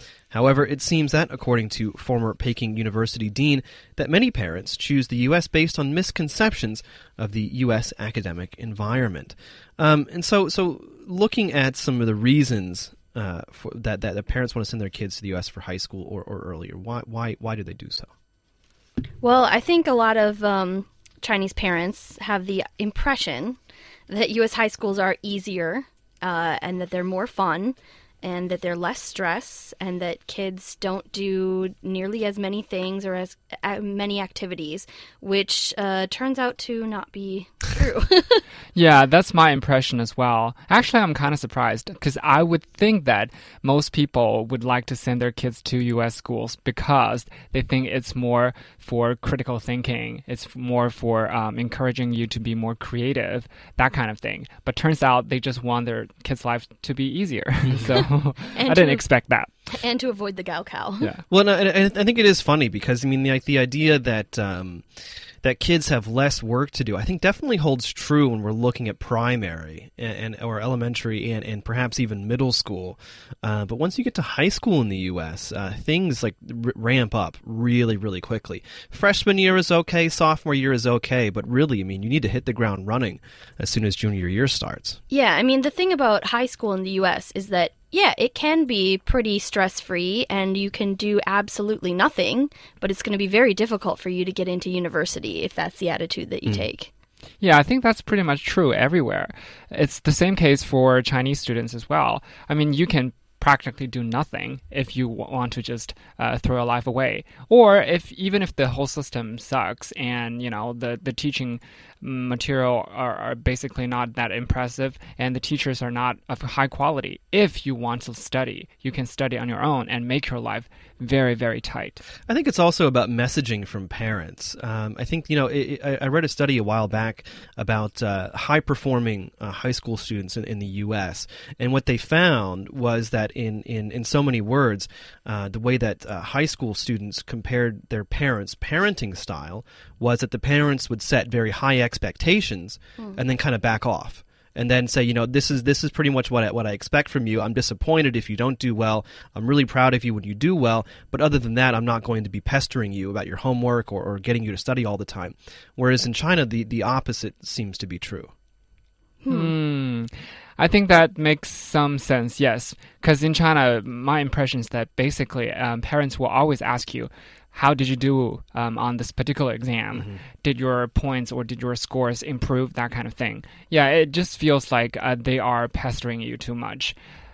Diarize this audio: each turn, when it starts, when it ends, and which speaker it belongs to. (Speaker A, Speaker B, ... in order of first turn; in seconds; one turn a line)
Speaker A: 0.3-18.1
Speaker B: 19.2-23.6
Speaker B: 24.1-38.4
Speaker C: 38.7-59.7
Speaker B: 58.5-59.0
Speaker B: 59.7-61.1
Speaker A: 61.3-64.9
Speaker A: 65.4-85.0
Speaker B: 85.1-96.9
Speaker C: 97.4-122.0
Speaker A: 122.3-158.3
Speaker B: 159.2-159.5
Speaker C: 159.3-177.0
Speaker A: 169.9-170.2